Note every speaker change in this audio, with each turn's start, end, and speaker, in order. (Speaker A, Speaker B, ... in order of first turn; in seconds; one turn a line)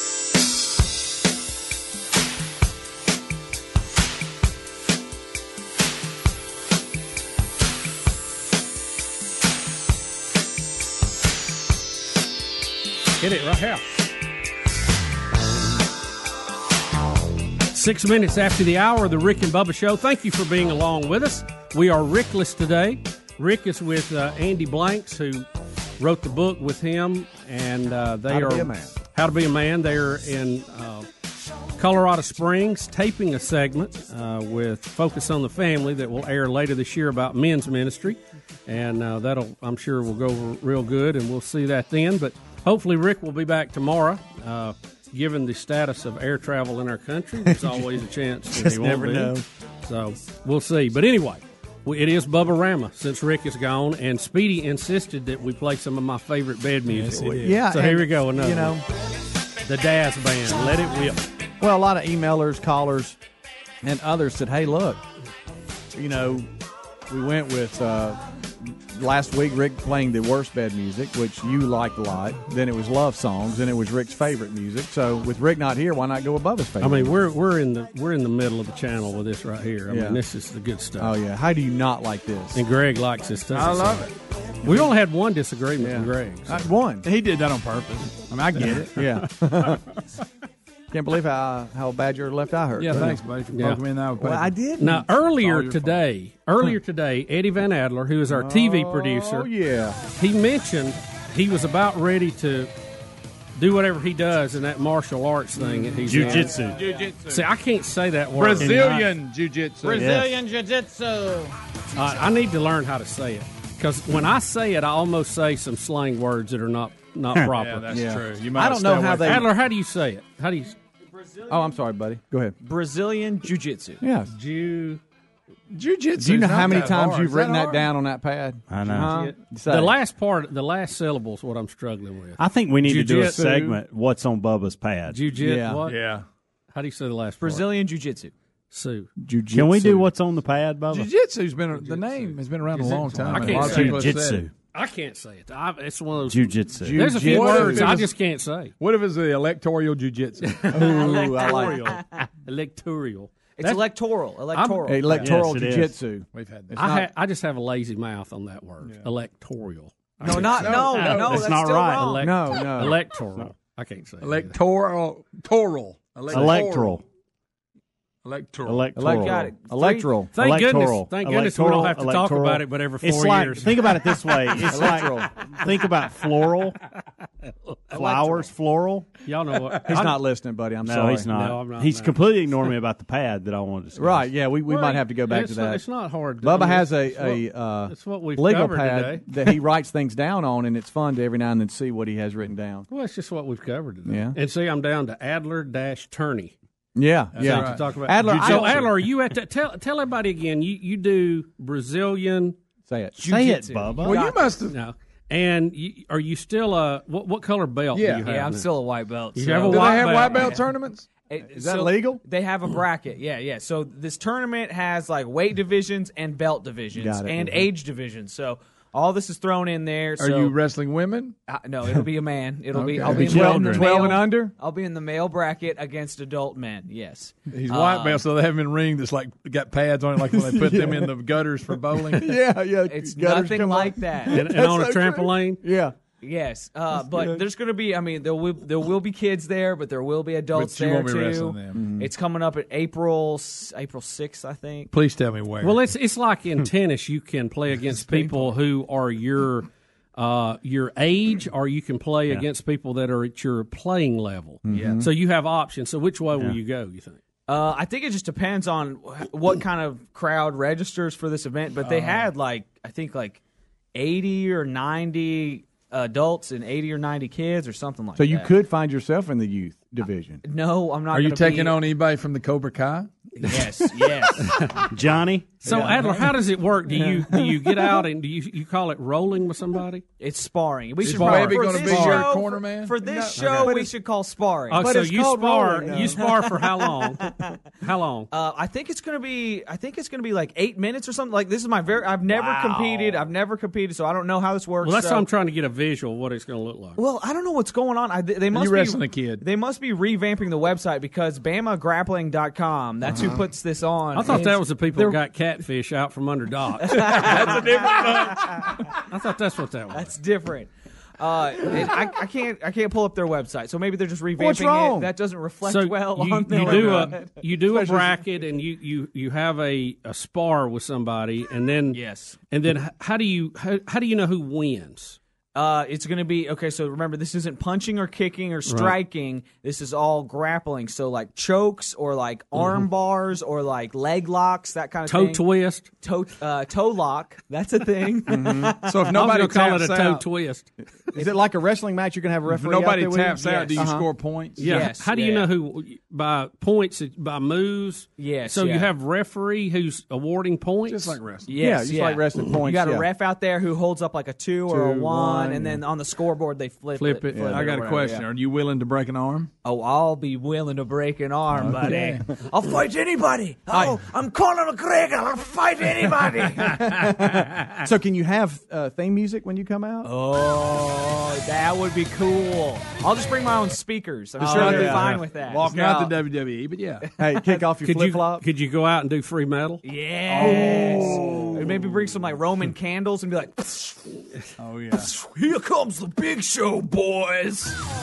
Speaker A: 13.2-13.9
Speaker A: 17.7-25.5
Speaker A: 26.0-31.1
Speaker B: 28.3-28.9
Speaker A: 31.8-58.8
Speaker B: 47.4-48.0
Speaker B: 48.5-49.4
Speaker C: 56.9-57.6
Speaker B: 57.2-58.8
Speaker A: 59.7-61.3
Speaker B: 61.6-63.2
Speaker B: 63.8-65.0
Speaker B: 65.9-66.5
Speaker B: 67.1-77.2
Speaker A: 76.8-81.2
Speaker B: 79.9-80.2
Speaker B: 81.0-82.6
Speaker A: 82.5-84.1
Speaker C: 83.5-84.1
Speaker A: 84.6-86.7
Speaker B: 85.8-87.1
Speaker C: 87.0-89.1
Speaker B: 88.9-89.8
Speaker B: 90.9-93.2
Speaker C: 92.8-94.6
Speaker A: 93.5-93.8
Speaker B: 94.2-95.1
Speaker A: 94.8-99.5
Speaker C: 95.2-96.0
Speaker B: 98.3-100.0
Speaker A: 100.2-102.7
Speaker A: 103.6-106.6
Speaker B: 105.6-106.3
Speaker D: 106.0-107.0
Speaker C: 106.2-107.4
Speaker A: 107.3-109.1
Speaker C: 108.3-110.1
Speaker D: 108.6-109.1
Speaker D: 109.8-110.4
Speaker A: 112.0-118.0
Speaker C: 117.6-119.5
Speaker B: 117.9-119.5
Speaker A: 119.2-120.8
Speaker B: 121.5-122.6
Speaker E: 122.6-124.0
Speaker B: 124.0-124.3
Speaker A: 124.3-125.0
Speaker C: 125.7-127.9
Speaker B: 126.2-129.9
Speaker D: 128.7-129.2
Speaker E: 128.9-129.2
Speaker A: 129.1-133.5
Speaker D: 132.4-135.2
Speaker B: 133.2-133.8
Speaker A: 135.1-136.0
Speaker B: 135.4-135.8
Speaker C: 135.9-136.2
Speaker A: 136.7-137.8
Speaker E: 137.4-138.3
Speaker A: 138.7-139.1
Speaker B: 139.2-140.1
Speaker D: 139.5-141.1
Speaker C: 140.9-144.5
Speaker A: 141.8-144.2
Speaker D: 143.3-144.5
Speaker A: 144.7-148.7
Speaker D: 146.2-147.1
Speaker B: 146.8-148.0
Speaker C: 147.1-148.2
Speaker C: 148.8-151.0
Speaker A: 150.4-153.9
Speaker B: 150.7-152.0
Speaker E: 151.0-152.0
Speaker E: 153.6-155.3
Speaker A: 154.5-155.3
Speaker B: 154.8-157.1
Speaker D: 155.2-156.0
Speaker C: 156.3-156.9
Speaker A: 156.8-164.6
Speaker C: 160.2-161.5
Speaker E: 160.3-162.2
Speaker D: 160.3-162.2
Speaker B: 162.2-163.0
Speaker C: 164.2-167.0
Speaker D: 166.3-167.0
Speaker B: 166.3-166.7
Speaker C: 168.2-169.0
Speaker D: 168.7-169.5
Speaker B: 168.9-170.4
Speaker E: 169.1-170.2
Speaker D: 170.3-176.8
Speaker A: 170.3-175.1
Speaker B: 174.7-175.3
Speaker A: 177.9-178.4
Speaker D: 177.9-179.1
Speaker A: 179.2-180.2
Speaker B: 179.8-181.3
Speaker D: 180.8-184.3
Speaker A: 181.3-182.2
Speaker B: 184.0-185.8
Speaker A: 184.7-189.3
Speaker B: 186.4-192.9
Speaker A: 192.9-196.6
Speaker B: 194.1-194.4
Speaker B: 197.0-198.9
Speaker C: 197.3-198.9
Speaker A: 197.4-202.6
Speaker B: 202.9-203.6
Speaker D: 203.2-204.2
Speaker E: 203.2-204.5
Speaker C: 204.0-204.8
Speaker A: 204.7-208.7
Speaker C: 207.9-208.3
Speaker E: 208.3-210.7
Speaker A: 209.3-210.5
Speaker C: 209.7-211.1
Speaker E: 211.3-220.6
Speaker B: 211.5-212.2
Speaker B: 217.0-217.7
Speaker C: 220.2-221.3
Speaker E: 221.5-228.2
Speaker C: 222.8-223.5
Speaker B: 223.0-224.5
Speaker D: 223.1-223.9
Speaker C: 227.5-232.4
Speaker B: 230.2-231.1
Speaker B: 231.9-235.9
Speaker E: 232.9-234.4
Speaker A: 234.3-235.6
Speaker E: 236.2-244.9
Speaker C: 240.5-241.9
Speaker B: 241.7-242.1
Speaker C: 244.9-245.8
Speaker A: 245.6-257.2
Speaker E: 247.9-248.5
Speaker B: 254.7-255.1
Speaker E: 257.5-263.4
Speaker C: 261.8-262.3
Speaker E: 263.9-268.5
Speaker B: 268.2-270.4
Speaker E: 270.4-271.8
Speaker C: 271.1-273.1
Speaker E: 273.4-274.6
Speaker D: 274.9-275.8
Speaker A: 275.6-280.0
Speaker B: 275.6-276.2
Speaker E: 275.8-276.2
Speaker B: 276.9-278.0
Speaker E: 280.2-285.0
Speaker C: 281.0-283.8
Speaker A: 281.0-281.6
Speaker B: 281.6-282.2
Speaker B: 283.4-283.9
Speaker A: 283.4-283.6
Speaker A: 284.7-288.3
Speaker B: 284.7-286.5
Speaker E: 285.8-287.6
Speaker E: 288.3-295.2
Speaker C: 292.3-293.3
Speaker A: 294.8-297.0
Speaker E: 297.0-305.2
Speaker C: 298.5-299.4
Speaker B: 303.1-303.4
Speaker A: 304.1-307.6
Speaker E: 306.8-308.7
Speaker C: 307.0-308.7
Speaker A: 308.7-310.1
Speaker E: 309.9-317.3
Speaker B: 314.4-315.1
Speaker A: 315.6-325.2
Speaker C: 316.7-317.1
Speaker B: 316.7-317.1
Speaker B: 317.6-318.2
Speaker E: 321.9-322.4
Speaker E: 325.6-335.4
Speaker A: 328.7-329.0
Speaker A: 332.6-332.9
Speaker A: 335.1-335.9
Speaker E: 336.0-339.1
Speaker B: 338.3-338.8
Speaker C: 338.8-340.2
Speaker A: 339.1-340.7
Speaker B: 341.1-344.1
Speaker C: 342.5-344.9
Speaker E: 343.4-343.9
Speaker A: 344.6-351.2
Speaker E: 344.6-345.5
Speaker E: 348.2-348.9
Speaker C: 350.9-351.5
Speaker E: 351.5-358.3
Speaker B: 351.5-353.1
Speaker B: 354.7-355.8
Speaker C: 357.0-359.5
Speaker B: 357.3-357.7
Speaker E: 359.6-366.8
Speaker C: 361.5-362.2
Speaker B: 363.7-364.0
Speaker B: 366.6-370.1
Speaker C: 366.7-367.8
Speaker E: 370.0-375.8
Speaker B: 374.4-376.1
Speaker C: 374.4-377.1
Speaker B: 377.2-378.5
Speaker A: 377.8-379.8
Speaker E: 379.8-384.0
Speaker C: 380.3-381.8
Speaker B: 380.4-381.5
Speaker C: 384.6-385.1
Speaker E: 384.9-387.7